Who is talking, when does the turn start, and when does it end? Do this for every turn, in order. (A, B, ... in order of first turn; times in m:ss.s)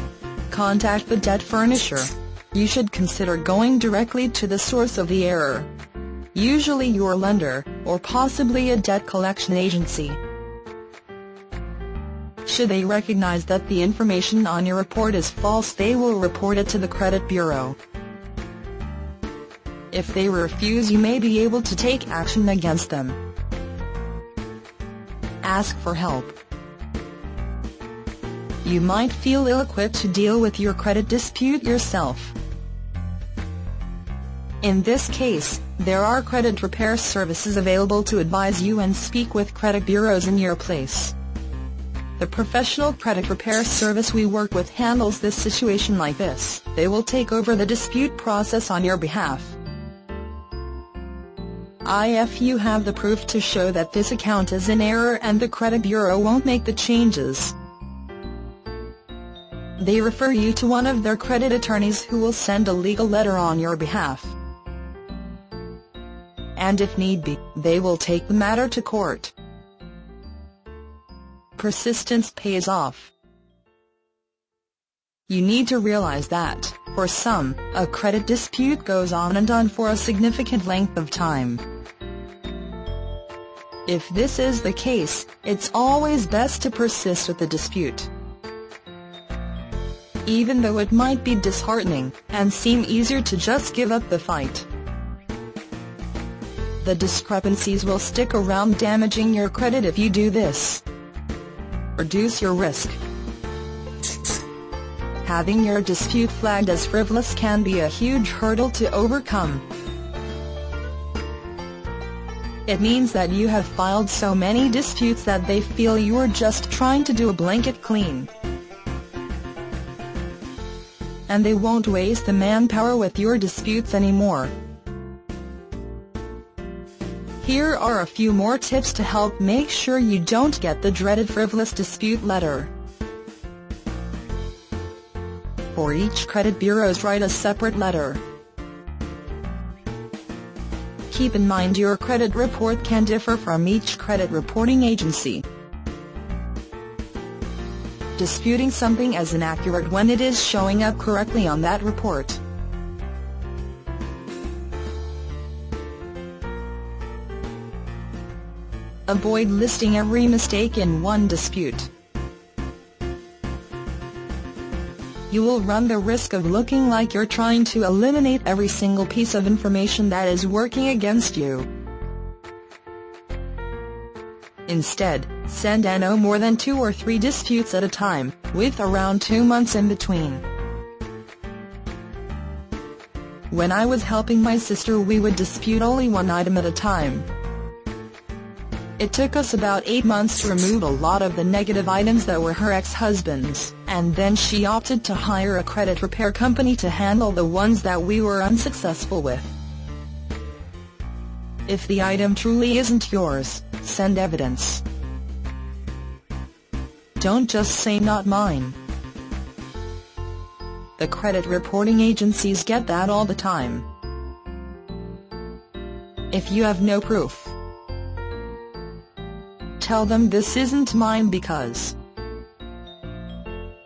0:00.5-0:05.7 A
0:06.3-0:10.2 A
0:12.5-0:17.8 A
0:19.9-0:23.2 A
0:25.4-0:26.4 A
0:28.6-0:32.4 A
0:34.6-0:41.2 A
0:42.2-0:49.6 A
0:51.8-0:57.6 A
0:59.8-1:04.4 A
1:06.6-1:09.3 A
1:11.6-1:13.1 A
1:15.3-1:21.6 A
1:23.9-1:28.1 A
1:30.2-1:34.7 A
1:36.8-1:40.8 A
1:42.0-1:43.0 A
1:45.2-1:49.6 A
1:52.7-1:58.3 A
2:01.3-2:04.5 A
2:07.4-2:12.7 A
2:15.7-2:18.2 A
2:21.1-2:25.5 A
2:28.2-2:32.4 A
2:39.1-2:41.9 A
2:45.3-2:51.7 A
2:54.7-3:00.4 A
3:03.5-3:07.3 A
3:09.0-3:19.5 A
3:21.7-3:24.8 A
3:27.2-3:28.8 A
3:31.0-3:33.9 A
3:36.3-3:37.6 A
3:39.8-3:42.0 A